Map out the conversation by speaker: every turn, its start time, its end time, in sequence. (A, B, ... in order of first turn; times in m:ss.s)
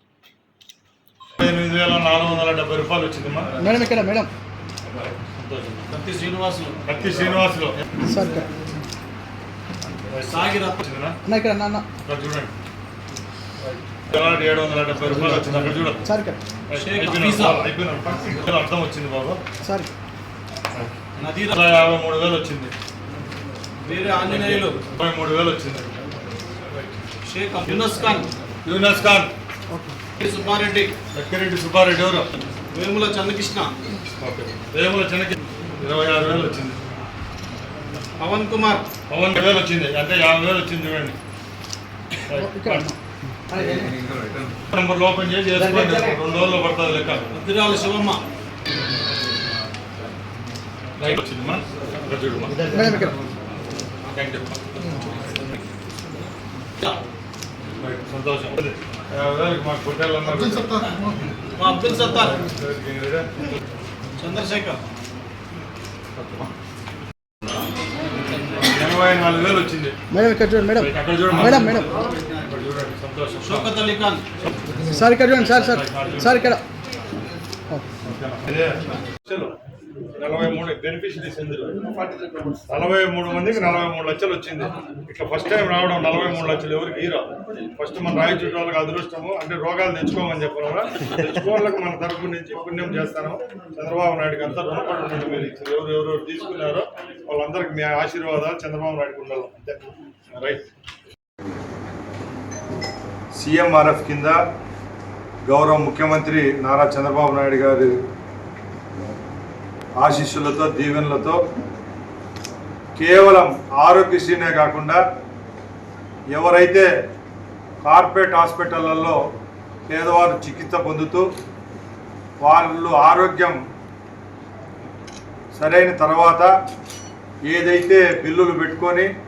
0:01.4-0:03.5 A
0:03.6-0:04.3 B
0:05.3-0:05.9 A
0:05.9-0:06.8 C
0:06.9-0:07.8 A
0:08.1-0:08.5 B
0:10.1-0:11.2 A
0:10.2-0:10.8 C
0:11.2-0:11.8 B
0:12.1-0:12.5 A
0:13.6-0:16.0 A
0:15.1-0:16.4 B
0:16.7-0:19.4 A
0:16.8-0:17.6 C
0:19.6-0:19.9 B
0:21.2-0:21.6 C
0:21.5-0:22.7 A
0:23.8-0:24.8 C
0:24.2-0:25.9 A
0:27.2-0:28.3 C
0:28.6-0:29.3 A
0:29.7-0:30.0 B
0:30.2-0:30.9 C
0:31.1-0:32.3 A
0:32.7-0:33.7 C
0:34.2-0:36.8 A
0:38.2-0:38.9 C
0:39.1-0:41.2 A
0:42.3-0:42.9 A
0:42.3-0:43.0 B
0:43.5-0:44.0 B
0:44.6-0:47.3 A
0:45.6-0:46.2 B
0:47.3-0:48.2 C
0:51.0-0:52.6 A
0:52.6-0:53.2 B
0:54.1-0:54.6 A
0:57.8-1:00.8 A
1:01.6-1:02.4 C
1:02.1-1:03.3 A
1:04.2-1:04.8 C
1:06.2-1:06.5 A
1:08.6-1:10.0 A
1:10.1-1:11.9 B
1:10.8-1:11.9 A
1:12.5-1:13.7 A
1:13.4-1:14.2 C
1:14.9-1:16.6 B
1:15.3-1:16.5 A
1:18.0-1:19.5 A
1:20.2-1:21.8 A
1:22.7-1:40.6 A
1:43.4-1:44.4 A
1:45.5-1:47.9 A
1:50.0-1:51.4 A
1:53.0-1:55.0 A
1:56.3-1:56.9 A
1:57.8-1:59.2 A
1:59.9-2:01.3 A
2:02.4-2:03.6 A
2:05.6-2:06.5 A
2:07.5-2:09.1 A